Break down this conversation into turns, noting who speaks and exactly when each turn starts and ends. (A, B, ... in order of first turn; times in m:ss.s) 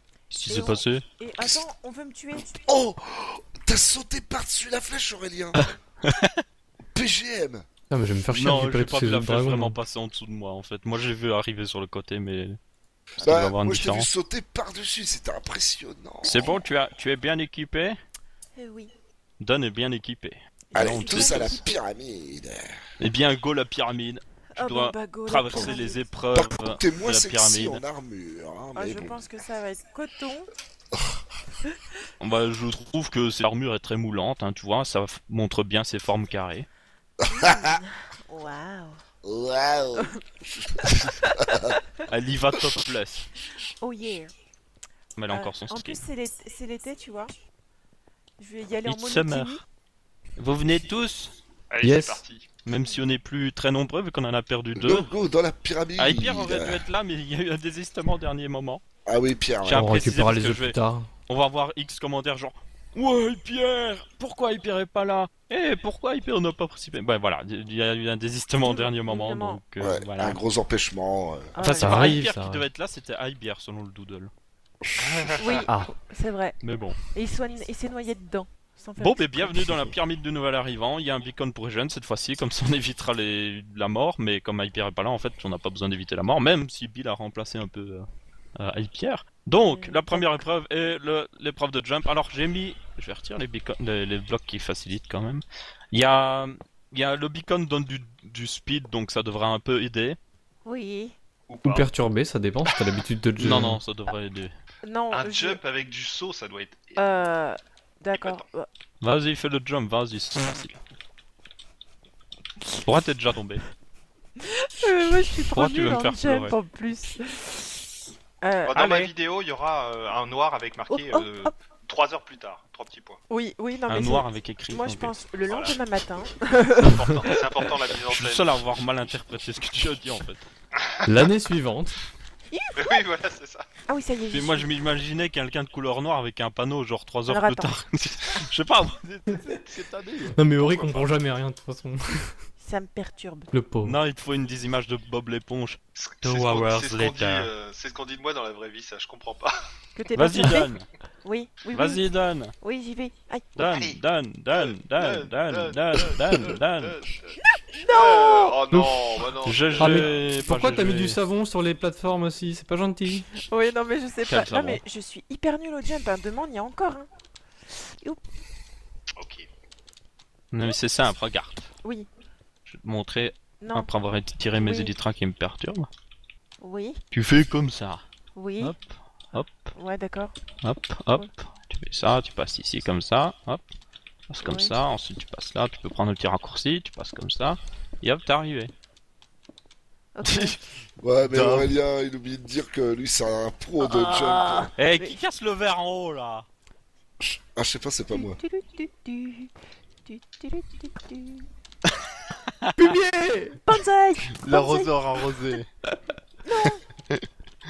0:00.3-0:01.0 A
0:00.4-0:02.5 B
0:02.6-0:05.6 C
0:06.0-0:06.4 A
0:06.9-0:07.6 C
0:07.9-0:09.8 D
0:08.3-0:12.6 A
0:13.2-0:14.1 A
0:13.2-0:16.6 C
0:16.2-0:18.0 A
0:18.6-0:18.9 B
0:19.4-0:21.6 A
0:20.7-0:21.7 B
0:20.7-0:22.8 C
0:23.0-0:27.8 A
0:24.6-0:26.0 B
0:26.3-0:29.2 C
0:28.7-0:30.5 B
0:32.2-0:36.7 A
0:37.3-0:39.0 B
0:37.4-0:37.8 C
0:39.2-0:41.8 C
0:40.8-0:41.6 B
0:42.1-0:43.3 A
0:43.8-0:44.3 B
0:45.2-0:46.0 A
0:45.3-0:47.3 B
0:48.4-0:49.6 B
0:48.8-0:49.6 A
0:50.4-0:51.3 A
0:51.7-0:52.5 E
0:51.8-0:52.2 D
0:52.6-0:55.1 A
0:54.8-0:56.8 C
0:56.0-0:58.8 A
0:59.0-0:59.9 C
0:59.6-1:00.8 A
0:59.7-1:01.1 D
1:01.3-1:10.4 A
1:08.6-1:09.6 B
1:09.8-1:11.5 C
1:11.5-1:12.2 B
1:11.6-1:14.3 A
1:11.8-1:12.6 D
1:15.0-1:15.7 E
1:15.4-1:16.6 B
1:15.7-1:15.9 D
1:16.6-1:17.0 A
1:17.1-1:19.8 B
1:19.0-1:28.1 A
1:28.6-1:40.2 A
1:29.6-1:30.4 B
1:40.6-1:41.1 B
1:41.5-1:41.9 E
1:41.6-1:43.8 D
1:43.4-1:44.5 A
1:44.8-1:45.6 B
1:45.1-1:47.0 E
1:47.0-1:48.7 B
1:48.1-1:48.4 E
1:49.0-1:50.8 A
1:52.8-1:53.6 A
1:54.4-1:57.7 B
1:55.5-1:56.5 A
1:58.4-1:59.0 B
1:58.7-2:03.2 E
1:58.8-1:59.1 A
2:00.9-2:01.5 B
2:03.3-2:07.4 B
2:03.9-2:05.2 A
2:05.5-2:05.8 E
2:06.8-2:08.6 E
2:08.1-2:10.4 A
2:10.8-2:11.2 E
2:11.0-2:12.0 D
2:12.5-2:13.0 B
2:12.8-2:13.6 E
2:13.9-2:14.7 B
2:14.3-2:20.4 A
2:17.3-2:17.7 B
2:20.3-2:22.4 D
2:20.5-2:21.1 E
2:22.6-2:23.5 B
2:23.5-2:24.0 D
2:23.8-2:27.5 A
2:26.0-2:29.6 E
2:30.0-2:32.0 B
2:30.2-2:30.9 A
2:31.7-2:32.5 A
2:32.6-2:33.6 B
2:33.6-2:37.0 A
2:33.7-2:34.0 E
2:34.5-2:40.2 E
2:37.4-2:38.6 B
2:38.7-2:39.1 D
2:39.4-2:41.2 A
2:39.8-2:43.3 D
2:43.4-2:47.1 B
2:44.3-2:44.8 A
2:47.7-2:48.2 B
2:49.2-2:49.5 E
2:50.5-2:51.7 A
2:51.8-2:52.1 B
2:52.7-2:55.9 A
2:53.6-2:53.9 B
2:54.6-2:54.9 B
2:56.6-2:57.0 B
2:57.1-2:58.0 A
2:58.3-2:58.7 B
2:58.6-2:59.7 A
2:59.4-3:00.3 B
3:00.6-3:03.6 A
3:04.3-3:08.7 A
3:04.4-3:04.7 B
3:10.2-3:10.6 B
3:10.2-3:10.6 A
3:11.0-3:14.7 C
3:11.3-3:11.7 A
3:13.8-3:15.2 B
3:14.8-3:16.4 A
3:17.5-3:18.4 C
3:18.1-3:19.5 B
3:20.0-3:21.4 B
3:22.6-3:22.9 A
3:22.8-3:23.6 D
3:23.6-3:25.0 B
3:24.4-3:25.7 A
3:26.4-3:26.8 B